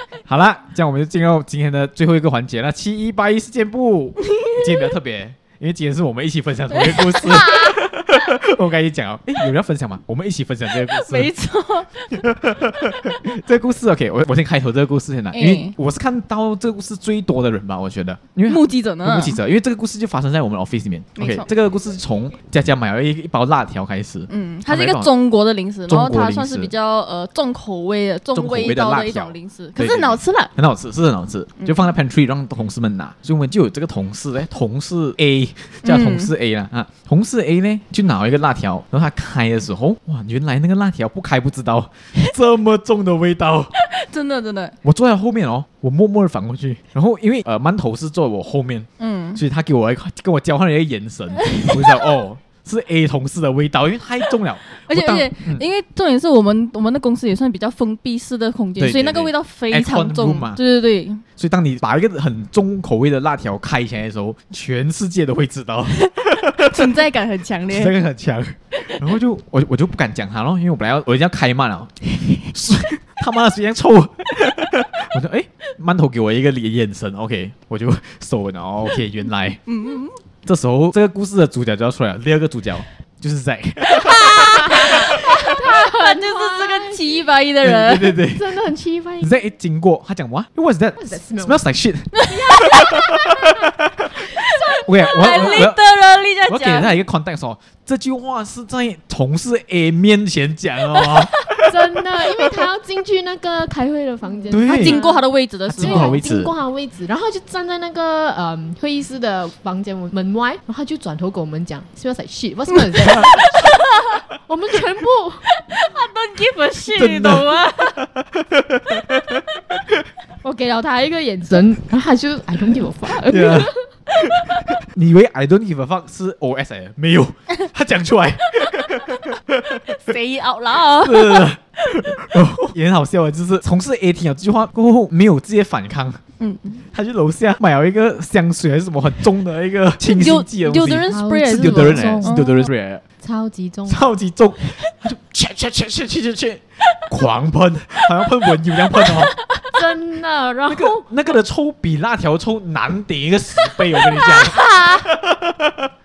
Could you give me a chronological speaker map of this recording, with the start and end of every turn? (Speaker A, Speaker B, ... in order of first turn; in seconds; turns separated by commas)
Speaker A: 0.3-11.3, Speaker B: 6.7-7.8, Speaker B: 10.7-12.2, Speaker A: 12.2-25.1, Speaker B: 15.3-15.7, Speaker B: 18.5-19.4, Speaker B: 21.1-21.5, Speaker B: 24.3-30.5, Speaker A: 25.9-26.7, Speaker A: 28.3-43.7, Speaker B: 35.8-36.3, Speaker B: 43.8-44.8, Speaker A: 44.8-55.6, Speaker B: 49.0-49.4, Speaker B: 51.5-52.0, Speaker B: 54.9-61.2, Speaker A: 58.8-60.6, Speaker A: 61.4-66.8, Speaker B: 65.9-68.0, Speaker A: 67.7-79.6, Speaker B: 79.7-80.2, Speaker A: 80.4-85.2, Speaker B: 83.9-88.2, Speaker C: 84.3-87.2, Speaker A: 87.6-88.5, Speaker C: 88.2-89.4, Speaker A: 89.2-94.2, Speaker C: 91.0-91.6, Speaker B: 92.2-93.0, Speaker C: 92.2-93.7, Speaker B: 94.3-96.9, Speaker C: 94.5-95.7, Speaker A: 94.8-95.8, Speaker A: 96.5-101.7, Speaker C: 101.6-105.2, Speaker B: 104.5-106.2, Speaker A: 104.5-105.0, Speaker A: 105.7-106.5, Speaker C: 105.8-113.8, Speaker B: 113.0-114.2, Speaker C: 114.3-115.5, Speaker B: 115.5-118.0, Speaker A: 116.9-119.9, Speaker C: 120.4-123.8, Speaker A: 123.2-123.7, Speaker A: 124.2-130.0, Speaker B: 130.0-131.5, Speaker A: 131.0-136.2, Speaker B: 136.4-136.8, Speaker A: 136.9-143.0, Speaker B: 140.0-142.7, Speaker C: 141.1-142.3, Speaker C: 143.2-144.1, Speaker A: 143.9-149.3, Speaker B: 149.0-149.6, Speaker C: 149.7-151.0, Speaker A: 150.7-155.9, Speaker B: 154.2-155.0, Speaker C: 154.5-154.9